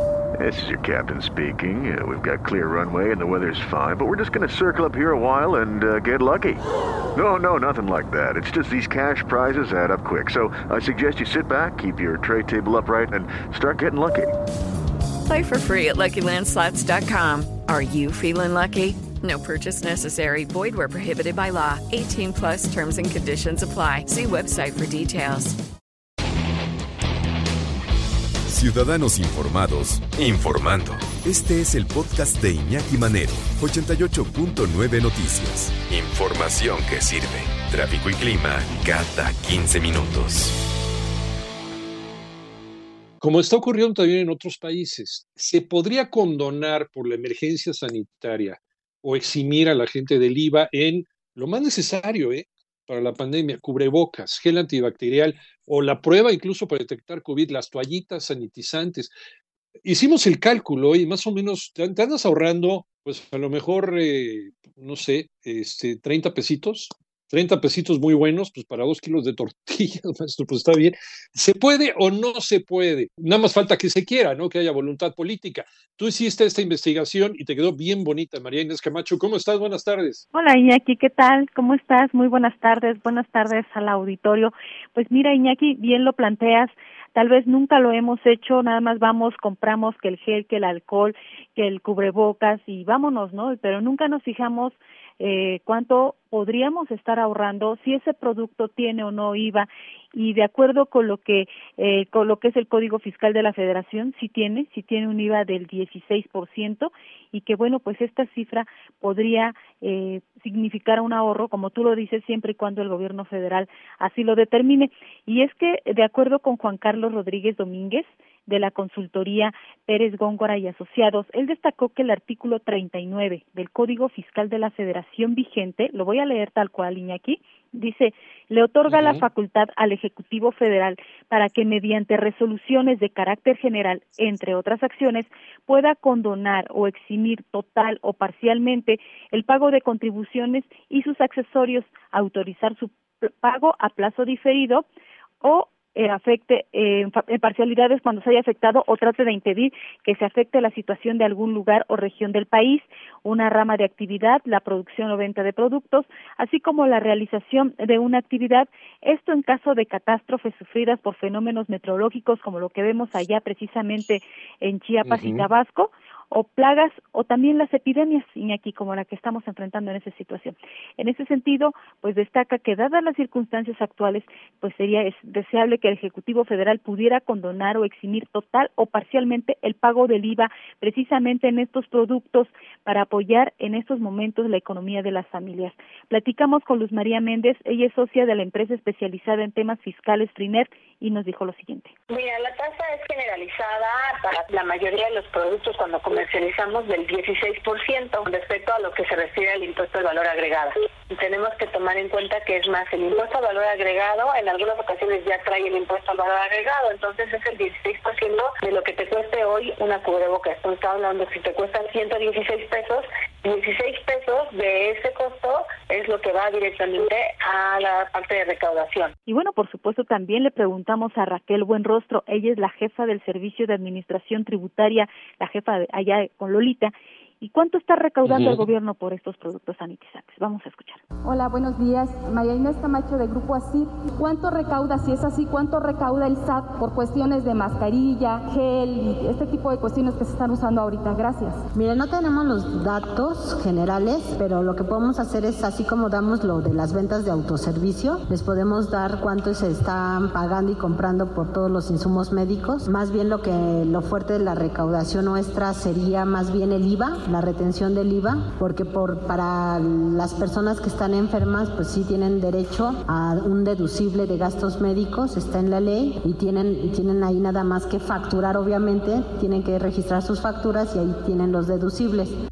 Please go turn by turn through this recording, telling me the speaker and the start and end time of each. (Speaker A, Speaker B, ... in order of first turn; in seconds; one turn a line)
Speaker A: 0.4-6.6
Speaker A: 7.1-14.3
Speaker B: 15.2-25.6
Speaker C: 28.5-40.5
Speaker D: 43.2-59.1
Speaker D: 59.8-80.2
Speaker E: 80.3-144.8
Speaker D: 128.9-129.2
Speaker E: 145.4-191.9
Speaker D: 165.0-165.4
Speaker F: 192.1-219.1
Speaker E: 219.3-231.0
Speaker D: 228.2-228.6
Speaker G: 231.2-241.6
Speaker H: 241.8-272.3